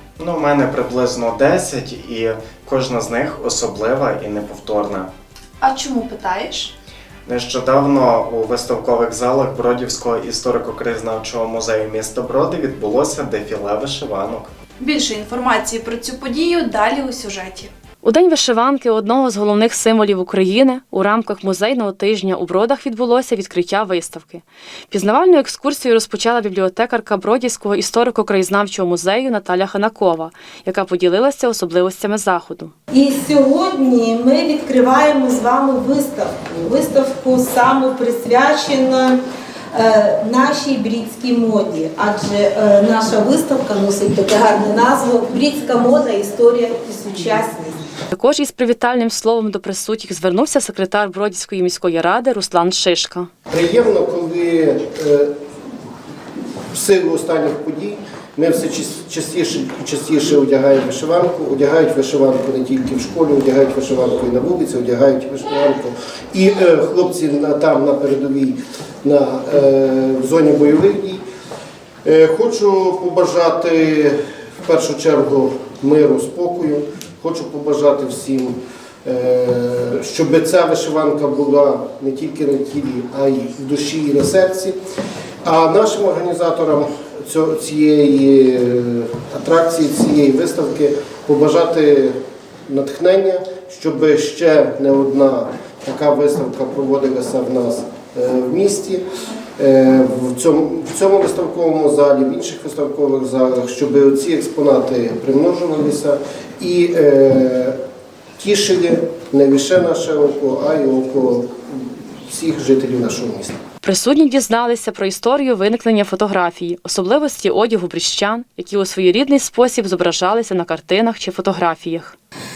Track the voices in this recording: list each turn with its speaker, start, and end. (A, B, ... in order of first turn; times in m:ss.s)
0:00.2-0:05.1 A
0:05.6-0:06.7 B
0:07.3-0:14.5 A
0:14.8-0:17.7 B
0:18.0-0:32.7 C
0:32.9-0:39.2 D
0:39.7-0:47.9 D
0:48.1-0:53.3 C
0:53.5-0:55.3 E
0:56.7-1:11.2 E
1:12.0-1:24.8 E
1:25.4-1:39.0 E
1:39.6-1:47.8 E
1:48.4-1:53.6 E
1:53.8-2:02.2 C